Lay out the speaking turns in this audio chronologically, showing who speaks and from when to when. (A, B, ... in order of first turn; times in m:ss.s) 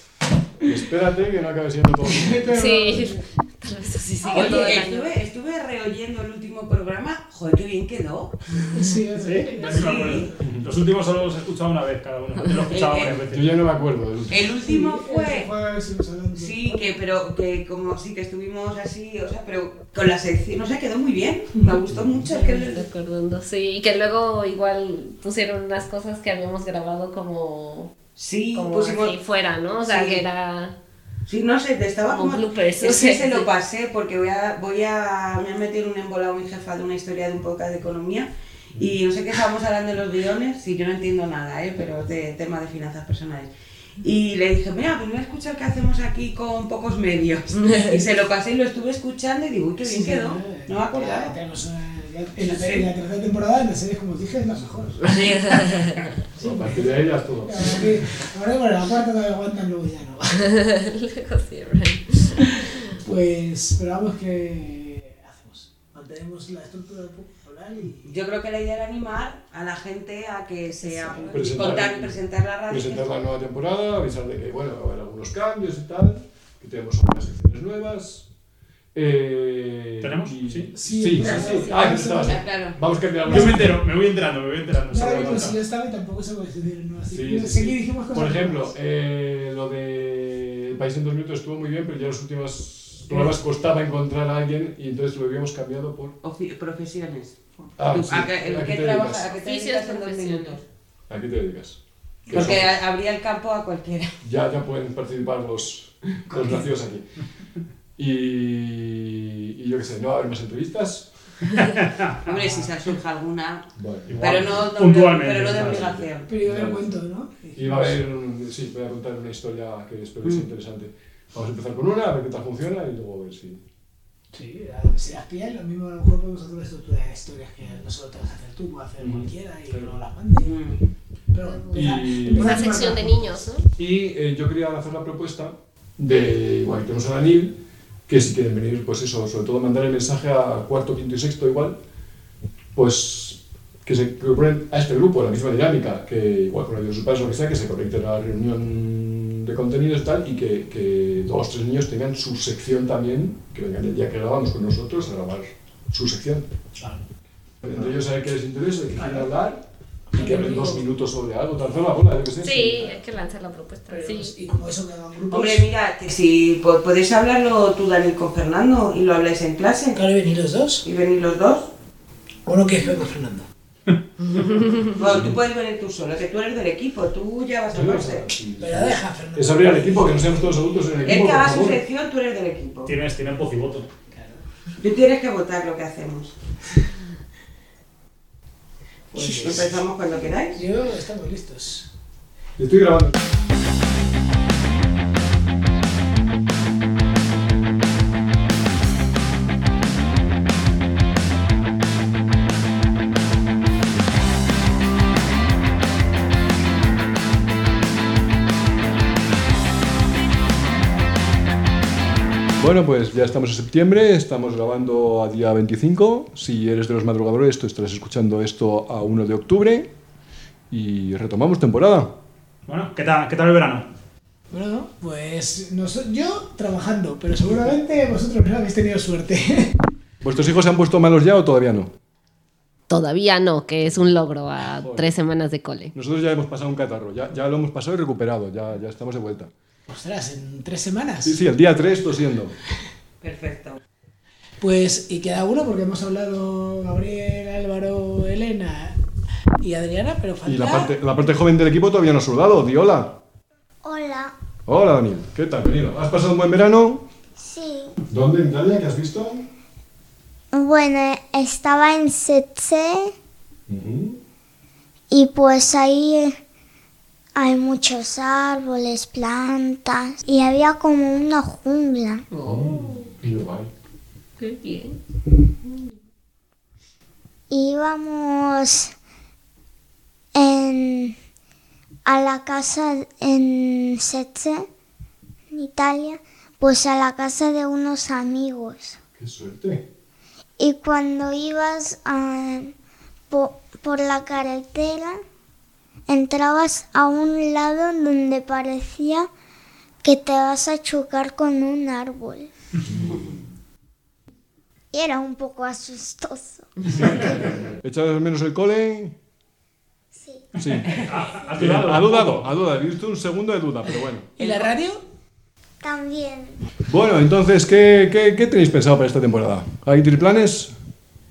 0:00.6-0:02.6 A
0:02.1-0:03.2 B
0:02.5-0:05.1 C
0:04.2-0:08.4 D
0:08.6-0:10.4 B
0:09.2-0:13.5 E
0:09.6-0:10.3 D
0:12.4-0:12.7 C
0:12.7-0:13.2 D
0:13.3-0:14.5 A
0:14.3-0:15.5 D
0:14.6-0:17.0 B
0:16.3-0:22.8 D
0:21.9-0:22.3 A
0:22.3-0:27.9 C
0:28.2-0:29.1 D
0:28.5-0:30.7 C
0:29.8-0:30.2 D
0:31.2-0:51.4 D
0:32.1-0:33.5 C
0:49.8-0:55.1 B
0:52.5-0:52.8 D
0:55.1-0:55.7 D
0:56.3-1:00.5 B
0:56.4-0:57.9 A
1:00.6-1:02.3 C
1:02.6-1:08.0 B
1:08.0-1:13.0 D
1:10.8-1:11.4 B
1:11.2-1:12.2 A
1:12.7-1:18.3 A
1:18.9-1:23.8 A
1:20.0-1:20.7 E
1:20.7-1:22.4 B
1:21.2-1:22.8 D
1:23.2-1:23.8 B
1:23.3-1:25.6 E
1:24.9-1:28.7 B
1:27.1-1:36.2 A
1:36.2-1:37.4 D
1:37.8-1:39.4 A
1:37.9-1:40.6 D
1:39.4-1:40.6 C
1:41.1-1:42.8 A
1:42.3-1:44.1 D
1:44.2-1:47.1 A
1:46.3-1:46.6 B
1:48.0-1:51.1 A
1:51.5-1:52.5 E
1:52.2-1:53.7 D
1:53.8-1:54.7 A
1:54.1-1:56.0 E
1:54.2-1:56.3 D
1:55.3-1:56.9 A
1:56.3-1:58.0 B
1:57.5-2:03.6 A
2:04.3-2:10.6 B
2:09.0-2:10.0 A
2:10.4-2:10.8 D
2:11.3-2:13.5 B
2:11.7-2:12.5 A
2:12.3-2:13.6 C
2:13.8-2:21.8 A
2:22.7-2:36.5 A
2:37.6-2:43.0 A
2:39.0-2:39.3 B
2:40.1-2:40.8 B
2:42.4-2:44.3 C
2:43.9-2:45.7 B
2:45.3-2:50.0 D
2:49.9-2:50.8 B
2:50.8-2:51.7 D
2:52.4-2:53.5 B
2:54.9-2:58.3 D
2:57.7-3:01.8 A
2:58.6-3:00.9 B
3:01.0-3:02.9 D
3:02.8-3:03.9 E
3:04.1-3:04.4 B
3:04.8-3:06.3 D
3:09.1-3:10.6 D
3:09.1-3:09.8 B
3:10.5-3:11.9 B
3:12.6-3:13.2 A
3:32.6-3:39.9 A
3:40.7-3:42.2 A
3:42.6-3:43.9 E
3:44.5-3:49.7 B
3:50.2-3:51.9 A
3:52.9-3:55.9 C
3:53.8-3:54.1 A
3:54.7-3:55.2 A
3:55.9-3:59.5 A
3:59.9-4:01.4 B
4:01.2-4:02.5 A
4:03.2-4:03.8 D
4:04.6-4:09.0 B
4:09.6-4:10.9 B
4:10.4-4:13.1 A
4:13.8-4:14.3 F
4:14.7-4:17.0 A
4:17.4-4:18.0 F
4:18.1-4:19.5 A
4:20.5-4:23.1 F
4:23.7-4:24.2 A
4:25.1-4:26.4 F
4:27.4-4:32.2 F
4:32.3-4:32.8 C
4:32.4-4:33.7 A
4:34.4-4:35.0 C
4:37.5-4:38.9 F
4:40.3-4:41.1 F
4:42.0-4:44.6 F
4:45.5-4:49.0 F
4:49.2-4:49.8 A
4:50.6-4:52.7 F
4:53.3-4:55.2 F
4:56.1-4:59.3 F
5:00.0-5:02.5 F
5:02.9-5:03.3 A
5:04.9-5:07.6 F
5:07.6-5:09.1 A
5:10.1-5:11.5 F
5:10.6-5:11.0 A
5:10.8-5:12.5 E
5:11.6-5:14.3 A
5:14.4-5:15.0 B
5:15.8-5:16.6 F
5:16.8-5:20.7 A